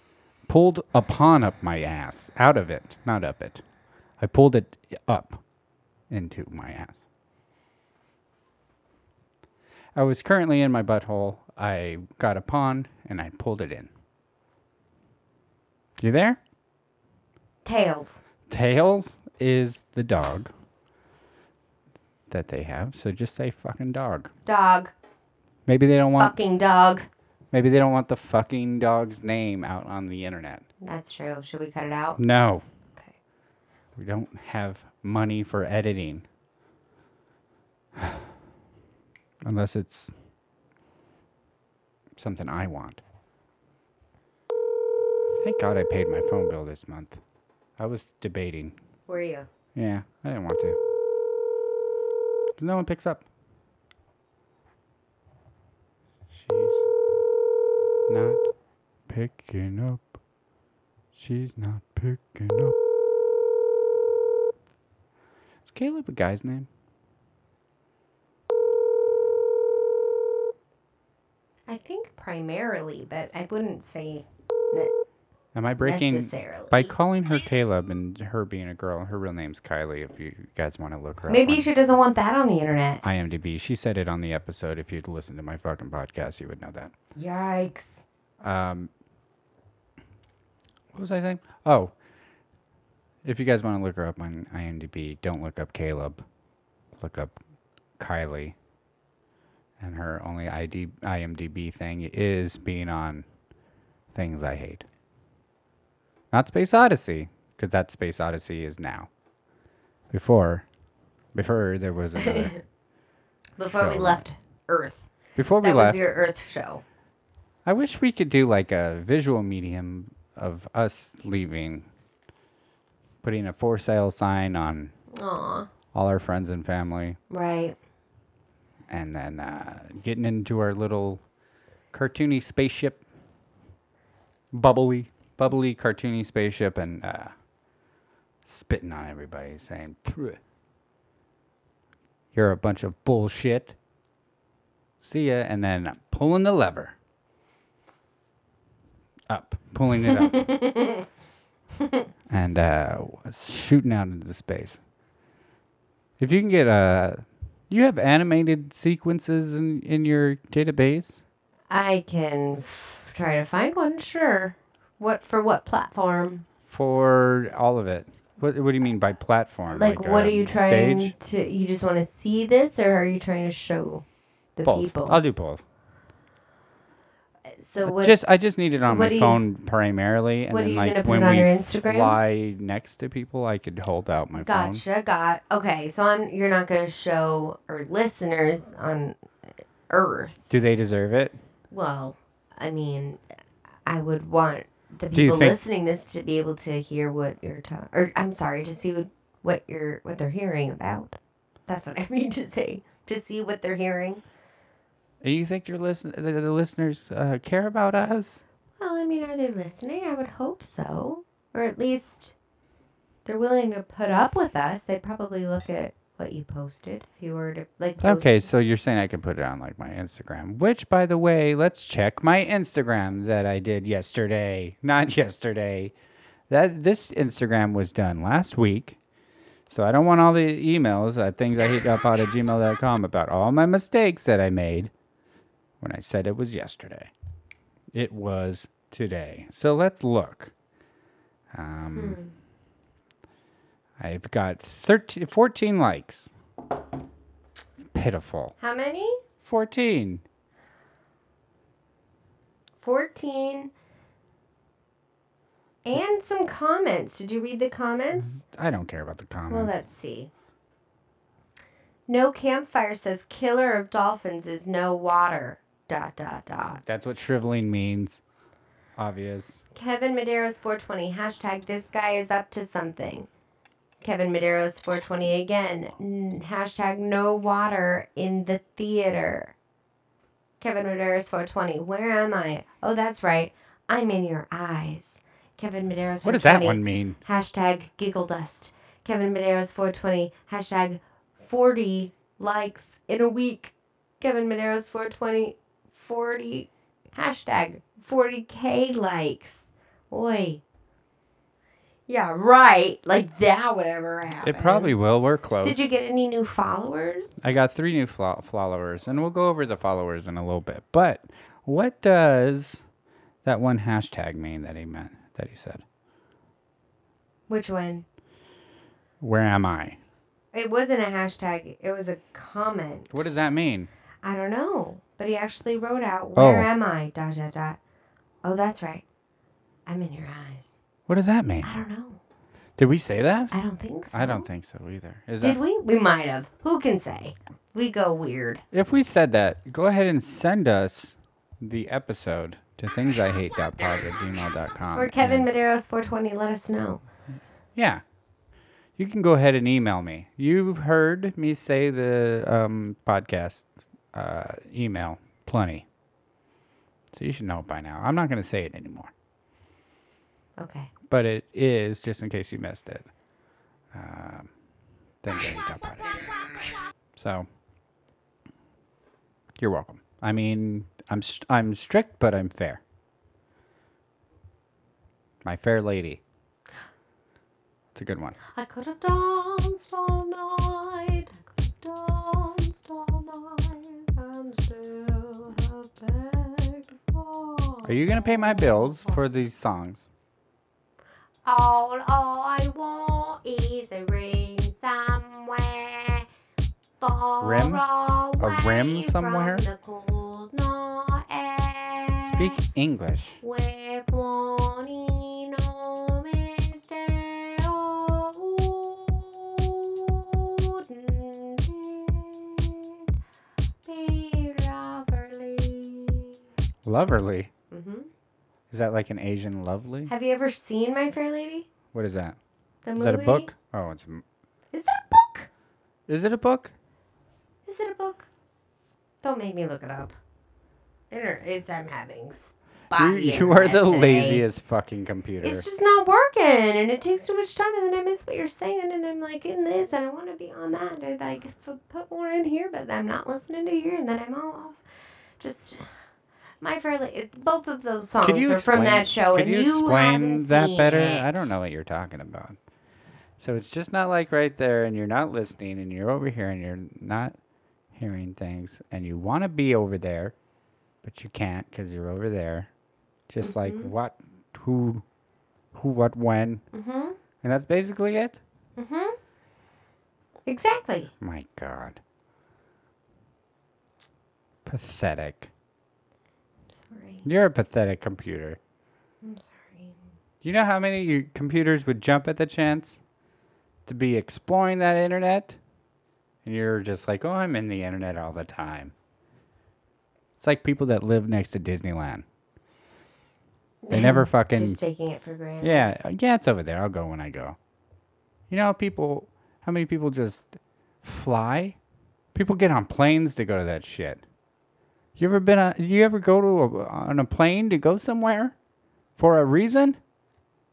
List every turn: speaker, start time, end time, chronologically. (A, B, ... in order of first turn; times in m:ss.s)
0:00.5-0:03.6 A
0:04.2-0:05.4 A
0:06.1-0:07.1 A
0:10.0-0:13.9 A
0:16.0-0:16.4 A
0:17.6-0:18.2 B
0:18.5-0:20.5 A
0:22.3-0:24.3 A
0:24.5-0:24.9 B
0:25.7-0:26.4 A
0:26.2-0:27.1 B
0:27.5-0:30.6 A
0:30.8-0:32.2 B
0:32.2-0:32.6 A
0:34.0-0:36.2 A
0:38.0-0:38.3 A
0:39.4-0:40.1 A
0:42.2-0:43.0 A
0:45.4-0:47.2 A
0:47.8-0:48.8 A
0:49.1-0:49.5 B
0:49.8-0:50.8 A
0:52.6-0:53.3 A
0:56.3-0:56.8 A
0:58.1-0:58.4 A
0:59.1-1:00.2 A
1:01.1-1:02.8 A
1:05.6-1:06.7 A
1:11.7-1:14.9 B
1:15.6-1:21.7 A
1:15.8-1:16.9 B
1:21.3-1:23.0 B
1:23.0-1:26.9 A
1:27.2-1:28.1 B
1:28.4-1:28.9 A
1:30.9-1:31.9 A
1:33.2-1:36.2 A
1:37.0-1:37.4 A
1:38.0-1:38.6 A
1:39.8-1:43.2 A
1:44.1-1:44.9 A
1:46.3-1:49.1 A
1:50.1-1:50.7 A
1:51.4-1:52.5 A
1:52.2-1:52.6 B
1:53.6-1:55.1 B
1:53.7-1:54.2 A
1:55.4-1:56.0 A
1:55.6-1:56.8 B
1:57.6-2:01.9 A
2:03.2-2:04.9 A
2:05.1-2:05.7 B
2:05.9-2:07.2 A
2:07.3-2:07.8 B
2:08.9-2:11.2 A
2:11.9-2:13.0 A
2:14.5-2:17.3 A
2:18.5-2:20.4 A
2:22.3-2:23.8 A
2:25.0-2:27.0 A
2:29.3-2:30.4 A
2:30.2-2:31.0 B
2:32.3-2:34.8 A
2:36.2-2:41.2 A
2:41.7-2:46.5 B
2:46.7-2:51.1 A
2:49.7-2:54.0 B
2:54.6-2:55.2 B
2:54.6-2:55.6 A
2:57.5-2:58.2 B
2:57.8-3:04.8 A
2:58.9-2:59.4 B
3:00.5-3:02.2 B
3:04.4-3:09.2 B
3:09.9-3:10.5 B
3:10.5-3:11.4 A
3:11.7-3:13.2 B
3:13.9-3:24.2 B
3:15.1-3:15.6 A
3:25.2-3:28.4 A
3:28.8-3:32.4 B
3:33.2-3:38.5 B
3:38.0-3:45.9 A
3:46.5-3:49.0 A
3:49.7-3:54.9 A
3:55.8-3:57.1 A
3:57.9-4:00.5 A
4:01.5-4:02.2 A
4:02.0-4:02.3 B
4:04.0-4:06.3 A
4:07.9-4:08.6 A
4:08.6-4:09.2 B
4:09.4-4:10.2 A
4:12.8-4:13.7 B
4:15.8-4:18.4 B
4:18.2-4:19.7 A
4:19.5-4:20.3 B
4:22.1-4:26.8 B
4:26.8-4:28.2 A
4:29.0-4:29.6 A
4:29.7-4:33.3 B
4:34.0-4:39.6 B
4:40.6-5:00.6 B
4:46.2-4:47.2 A
5:02.1-5:04.9 B
5:04.4-5:05.9 A
5:05.6-5:07.4 B
5:07.4-5:12.8 A
5:13.4-5:15.8 A
5:17.5-5:18.0 B
5:19.2-5:20.0 A
5:20.5-5:23.4 B
5:23.1-5:23.9 A
5:24.2-5:27.8 B
5:26.4-5:26.7 A
5:28.4-5:29.0 B
5:29.9-5:30.8 B
5:31.1-5:31.7 A
5:31.6-5:32.2 B
5:32.8-5:33.6 A
5:33.5-5:34.5 B
5:34.1-5:35.6 A
5:35.4-5:38.6 B
5:38.7-5:45.5 A
5:44.9-5:47.0 B
5:47.8-5:48.0 A
5:49.0-5:55.8 A
5:57.1-5:59.1 A
6:00.6-6:00.9 B
6:01.1-6:03.1 A
6:03.9-6:04.5 A
6:05.2-6:07.5 A
6:09.6-6:12.8 A
6:15.4-6:16.2 A
6:17.9-6:18.4 A
6:18.4-6:29.2 B
6:27.8-6:30.1 A
6:31.4-6:36.3 B
6:37.0-6:42.6 B
6:37.4-6:37.8 A
6:38.4-6:39.7 A
6:42.2-6:43.4 A
6:43.4-6:53.1 B
6:53.8-6:56.3 B
6:56.8-6:57.5 A
6:57.7-6:58.1 B
6:58.7-7:00.1 A
7:00.1-7:01.7 B
7:01.9-7:02.4 A
7:02.8-7:03.5 B
7:03.0-7:04.2 A
7:04.7-7:05.5 B
7:06.1-7:06.7 A
7:07.6-7:08.3 B
7:09.2-7:10.2 B
7:11.1-7:14.4 B
7:12.9-7:15.7 A
7:15.4-7:24.8 B
7:25.4-7:25.9 B
7:26.6-7:31.6 B
7:28.2-7:32.6 A
7:33.4-7:37.4 A
7:37.9-7:40.4 A
7:41.0-7:42.7 A
7:43.3-7:45.0 A
7:43.4-7:43.9 B
7:45.7-7:46.6 A
7:46.7-7:47.2 B
7:47.4-7:48.4 A
7:48.8-7:49.2 B
7:50.5-7:51.1 B
7:51.2-7:52.0 A
7:54.6-7:55.5 A
7:56.7-7:57.3 B
7:57.2-7:58.6 A
7:59.2-8:00.0 B
8:00.4-8:03.0 A
8:03.9-8:05.6 A
8:06.4-8:08.9 A
8:10.4-8:12.2 A
8:13.8-8:15.9 B
8:13.9-8:14.8 A
8:15.6-8:17.6 A
8:18.5-8:21.8 A
8:22.3-8:24.2 A
8:25.2-8:28.6 A
8:29.2-8:30.0 A